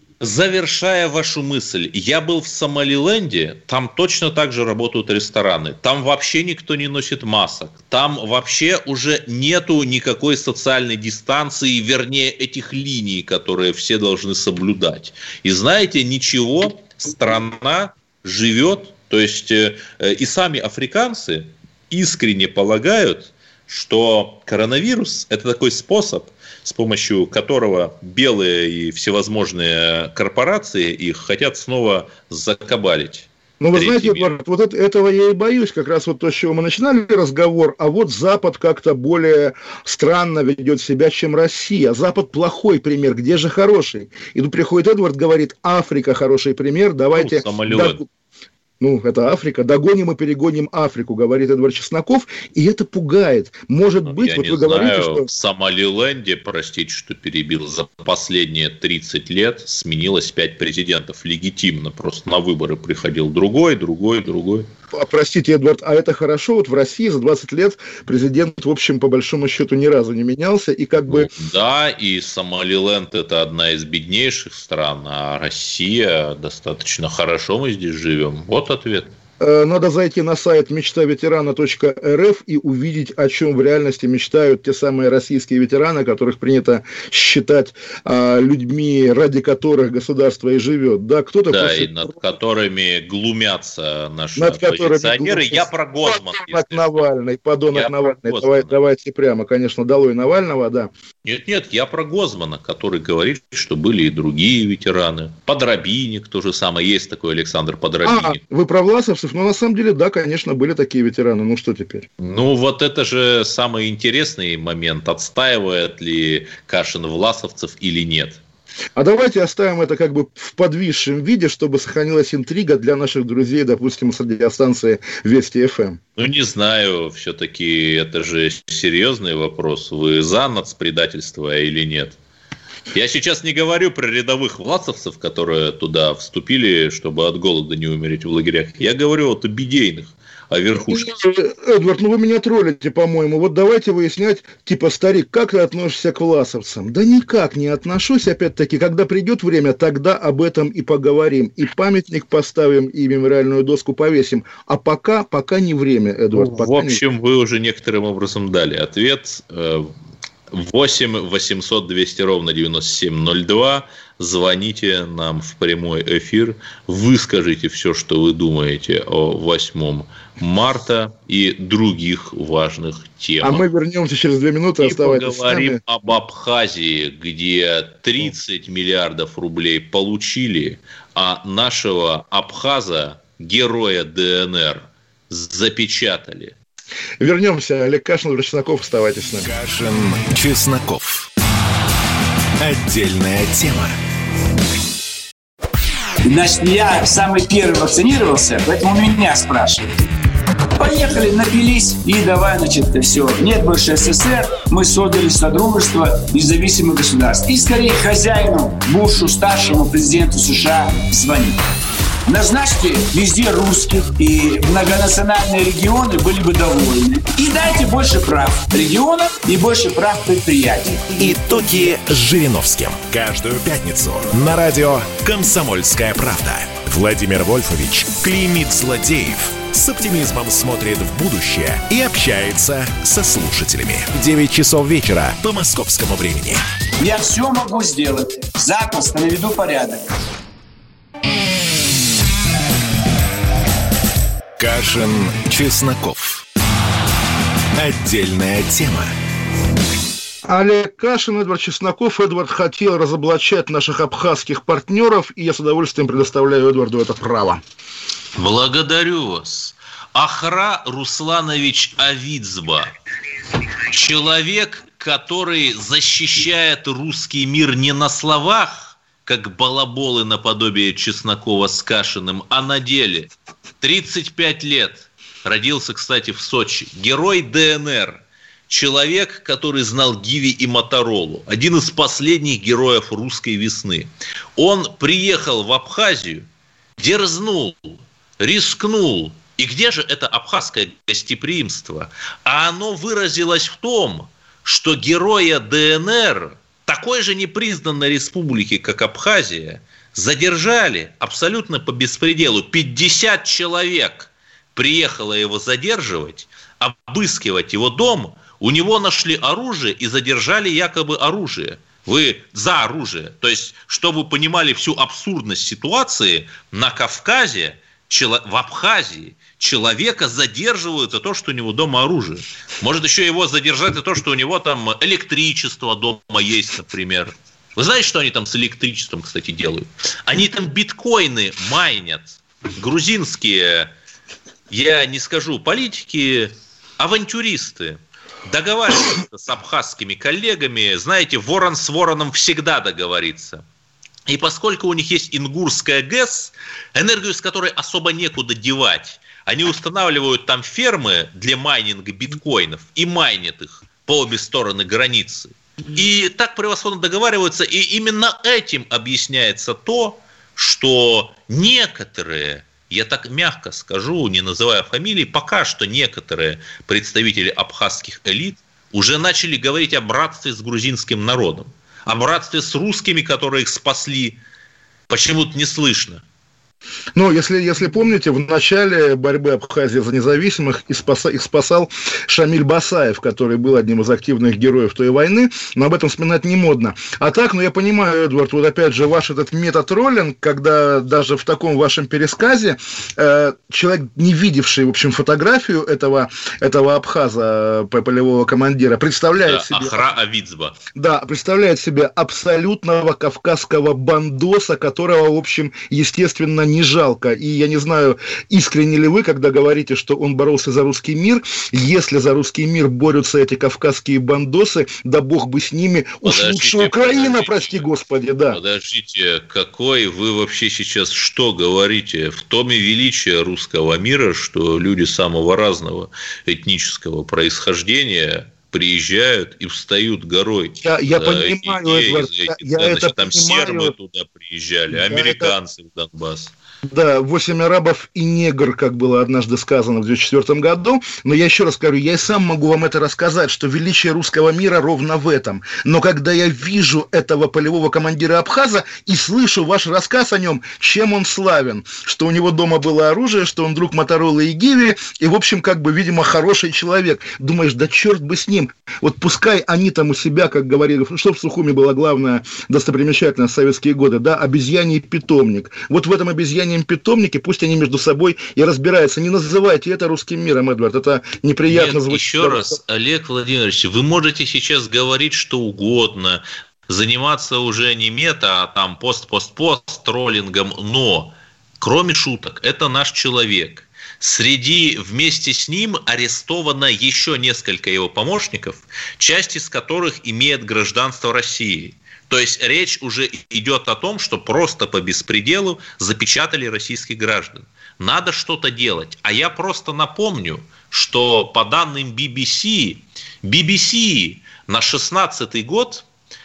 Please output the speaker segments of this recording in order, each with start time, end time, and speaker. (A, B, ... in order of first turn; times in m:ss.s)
0:00.2-0:34.3 A
0:33.6-0:48.0 B
0:47.1-0:48.0 A
0:48.8-0:55.2 B
0:54.0-1:04.7 A
1:04.9-1:11.3 B
1:11.1-1:19.1 A
1:19.4-1:32.2 B
1:31.5-1:36.9 A
1:34.4-1:40.9 B
1:37.7-1:38.8 A
1:41.2-1:48.4 A
1:48.0-1:52.0 B
1:52.2-1:58.4 A
1:59.0-2:06.0 B
2:06.2-2:12.2 A
2:12.9-2:21.1 A
2:20.9-2:37.0 B
2:36.3-2:39.9 A
2:40.5-2:53.6 A
2:53.4-2:55.8 B
2:54.8-3:06.5 A
3:07.2-3:09.5 B
3:09.4-3:11.3 C
3:12.6-3:14.0 C
3:16.3-3:19.9 D
3:20.8-3:31.6 D
3:32.3-3:41.2 D
3:41.2-3:56.6 C
3:57.0-4:00.0 D
4:04.6-4:06.4 C
4:07.8-4:09.2 C
4:10.4-4:17.6 B
4:18.4-4:22.9 A
4:23.9-4:46.4 A
4:47.0-5:33.9 A
5:34.7-5:43.6 A
5:44.3-6:14.4 A
6:15.1-6:16.2 A
6:17.1-6:40.0 B
6:39.4-6:40.8 A
6:41.0-6:58.6 B
6:56.2-6:57.9 A
6:58.5-7:16.5 A
7:10.8-7:13.9 B
7:14.9-7:15.5 B
7:16.8-7:52.8 B
7:51.7-8:26.0 A